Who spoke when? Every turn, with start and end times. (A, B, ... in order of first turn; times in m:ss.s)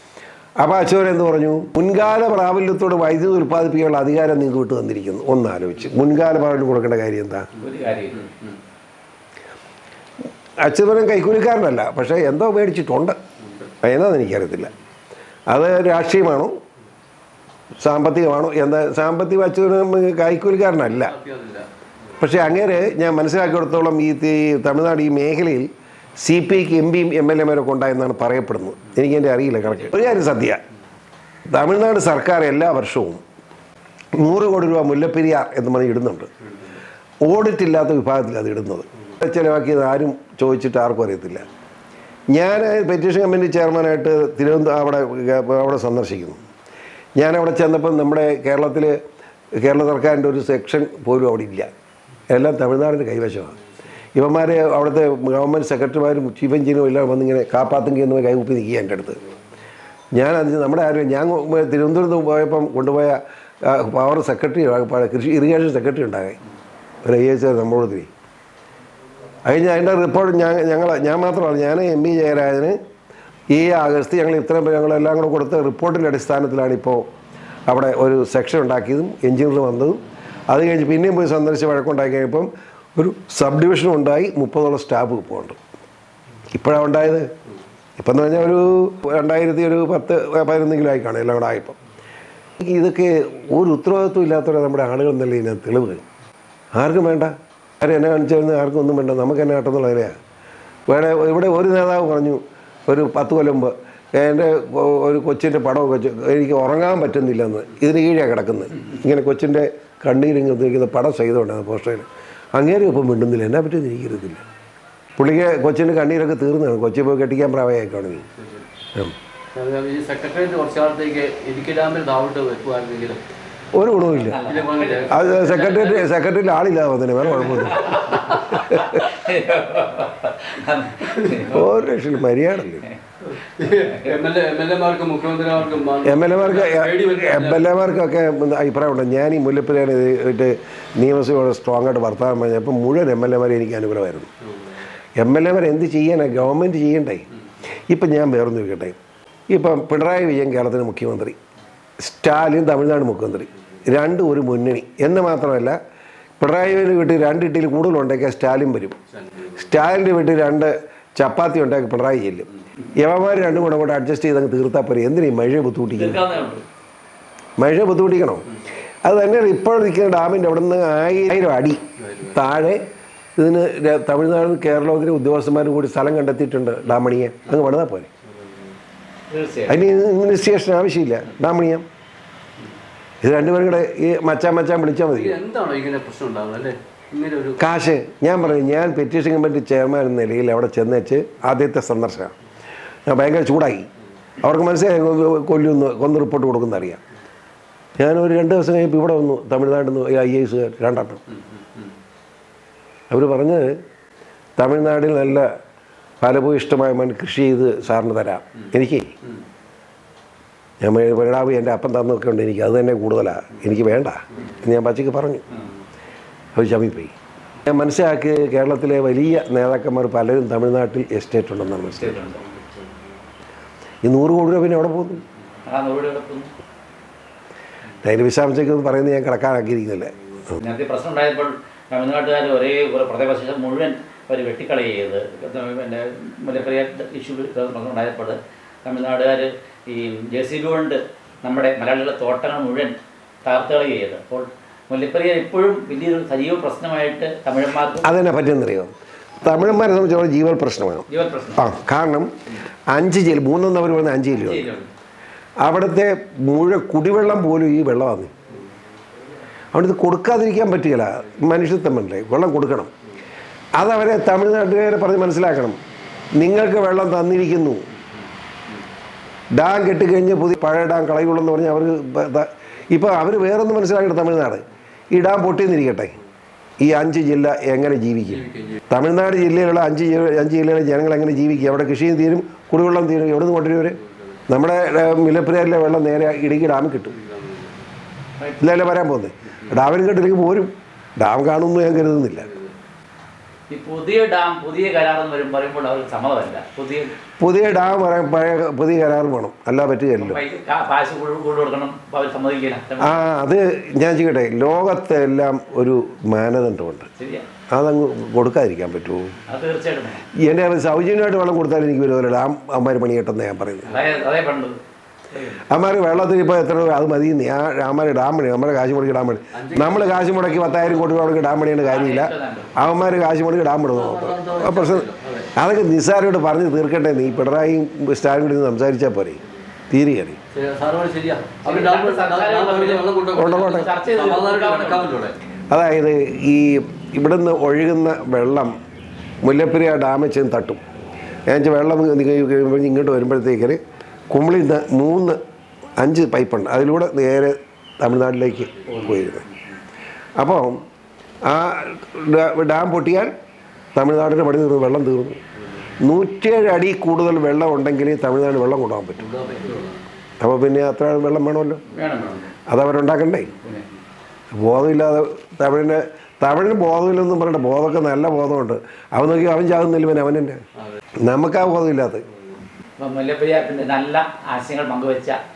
0:00.6-0:07.5 A
0:07.6-0:08.4 B
0:08.3-0:08.5 C
0:10.6-0:13.2 A
0:13.8-0:14.7 A
0:15.5-0:16.5 A
0:17.8-0:21.1 A
0:20.9-0:21.7 C
0:22.2-0:25.7 A
0:26.2-0:30.6 A
0:31.5-0:33.2 A
0:34.2-0:36.3 A
0:37.2-0:41.4 A
0:42.3-0:46.4 A
0:47.2-0:48.9 A
0:49.6-0:51.7 A
0:52.3-0:53.6 A
0:54.2-0:59.2 A
1:00.2-1:06.4 A
1:07.0-1:08.1 A
1:09.4-1:12.8 A
1:13.5-1:17.0 A
1:17.7-1:20.0 A
1:20.5-1:25.6 A
1:26.5-1:27.3 A
1:28.0-1:31.8 A
1:32.6-1:36.0 A
1:36.8-1:40.2 A
1:40.9-1:54.4 A
1:55.2-1:58.2 A
1:58.4-1:58.6 C
1:59.5-2:03.2 C
2:03.7-2:04.4 A
2:04.1-2:06.1 B
2:04.5-2:05.2 C
2:05.1-2:09.0 A
2:07.4-2:11.7 B
2:11.5-2:12.9 A
2:12.6-2:13.0 B
2:13.3-2:17.6 C
2:13.7-2:14.1 B
2:16.0-2:24.3 A
2:25.2-2:27.2 A
2:27.9-2:29.0 A
2:29.5-2:31.4 A
2:32.0-2:35.8 A
2:36.4-2:39.0 A
2:39.1-2:39.6 C
2:39.6-2:46.2 A
2:46.0-2:46.6 B
2:47.6-2:48.5 A
2:49.0-2:52.8 A
2:52.0-2:52.4 C
2:53.4-2:58.1 A
2:59.3-2:59.8 B
2:59.7-3:01.8 A
3:03.2-3:05.4 A
3:05.1-3:07.6 C
3:07.6-3:12.3 A
3:13.1-3:13.9 A
3:14.4-3:17.0 A
3:18.0-3:21.2 A
3:23.1-3:23.8 A
3:24.6-3:25.5 A
3:26.2-3:29.1 A
3:30.8-3:35.5 A
3:36.5-3:42.3 A
3:42.0-3:42.4 B
3:42.4-3:43.1 C
3:44.0-3:45.2 A
3:45.6-3:46.5 B
3:48.0-3:50.6 A
3:50.6-4:02.9 B
4:03.4-4:08.1 B
4:08.0-4:12.3 A
4:11.1-4:11.7 B
4:12.9-4:14.7 A
4:14.3-4:14.9 B
4:15.6-4:18.3 A
4:19.7-4:22.9 A
4:23.8-4:25.8 A
4:26.4-4:27.9 A
4:29.6-4:36.1 A
4:36.8-4:44.0 A
4:38.3-4:38.8 C
4:44.5-4:47.2 A
4:47.1-4:47.8 C
4:48.4-4:48.7 B
4:48.6-4:52.5 A
4:52.4-4:52.7 C
4:53.7-4:57.1 B
4:57.4-5:00.4 A
5:00.2-5:03.2 B
5:03.0-5:07.1 A
5:07.2-5:07.5 B
5:07.7-5:09.4 A
5:09.5-5:10.2 B
5:10.4-5:13.9 A
5:13.9-5:14.8 B
5:15.3-5:15.6 B
5:15.7-5:29.4 A
5:19.5-5:21.2 C
5:21.8-5:22.7 B
5:23.9-5:25.5 C
5:29.9-5:30.4 A
5:30.5-5:35.4 C
5:31.6-5:35.1 B
5:33.4-5:33.9 A
5:35.7-5:38.7 A
5:39.4-5:40.8 A
5:41.5-5:43.8 A
5:44.3-5:45.4 A
5:46.0-5:49.4 A
5:48.7-5:49.1 C
5:48.9-5:49.2 B
5:50.4-5:50.8 A
5:51.5-5:53.3 A
5:54.0-5:55.4 A
5:56.0-5:59.3 A
5:59.2-6:00.0 C
6:00.4-6:01.8 A
6:01.9-6:02.5 B
6:02.7-6:03.5 A
6:03.6-6:03.9 B
6:04.5-6:10.6 A
6:11.2-6:12.2 A
6:13.0-6:15.4 B